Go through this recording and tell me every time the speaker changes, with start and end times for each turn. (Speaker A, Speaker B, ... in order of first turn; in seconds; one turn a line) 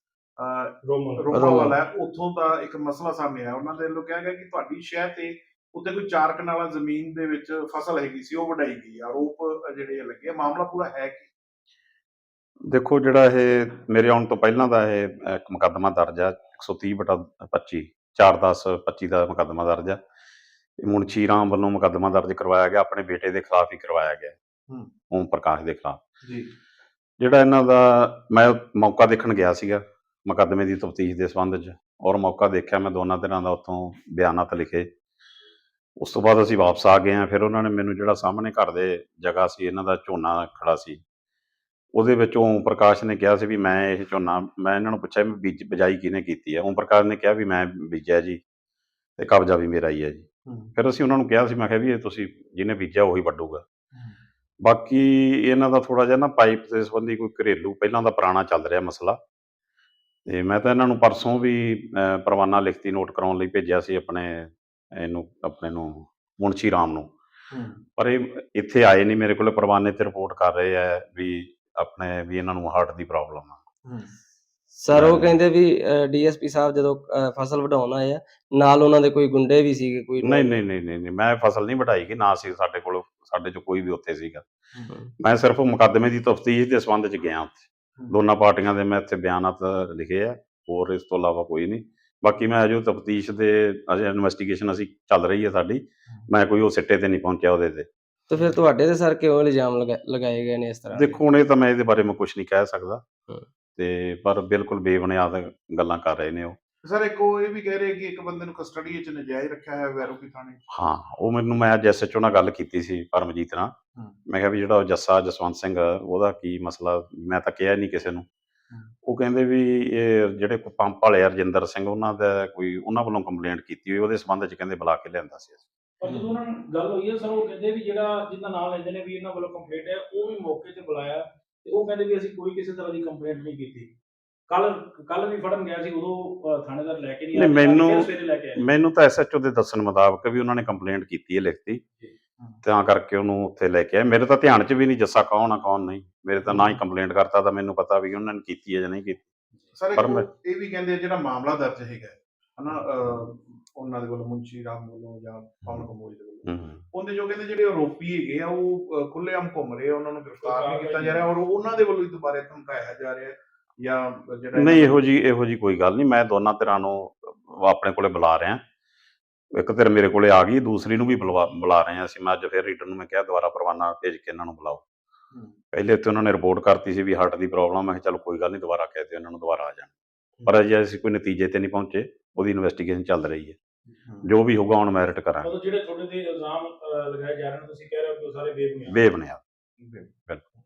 Speaker A: 0.4-11.3
Speaker B: 0.8-1.3
Speaker C: 1.3-1.8
Speaker D: 12.7-20.0
Speaker D: 20.8-24.3
Speaker D: 25.1-26.0
Speaker D: 27.2-34.9
Speaker D: 36.0-41.0
Speaker D: 41.9-48.4
Speaker D: 49.2-53.6
Speaker A: 50.5-50.7
Speaker A: 53.9-54.2
Speaker D: 54.6-59.2
Speaker D: 60.3-67.1
Speaker A: 67.5-67.8
Speaker D: 68.0-73.6
Speaker A: 73.8-74.1
Speaker C: 74.8-80.5
Speaker D: 74.9-75.3
Speaker D: 80.2-84.4
Speaker D: 85.2-97.9
Speaker C: 98.3-101.2
Speaker D: 100.9-103.0
Speaker D: 103.8-106.6
Speaker A: 106.8-110.6
Speaker D: 110.7-113.7
Speaker D: 114.3-118.2
Speaker D: 119.0-125.6
Speaker B: 126.0-133.9
Speaker A: 126.0-126.3
Speaker B: 134.5-138.7
Speaker D: 137.3-141.8
Speaker D: 142.6-149.3
Speaker A: 146.4-146.8
Speaker A: 149.7-165.0
Speaker D: 149.9-150.3
Speaker D: 156.4-156.8
Speaker B: 160.4-161.2
Speaker D: 164.6-168.6
Speaker D: 169.5-174.8
Speaker D: 175.7-179.9
Speaker D: 180.4-183.6
Speaker A: 184.0-184.3
Speaker D: 184.2-185.5
Speaker B: 185.4-189.0
Speaker D: 188.9-189.4
Speaker A: 189.8-190.1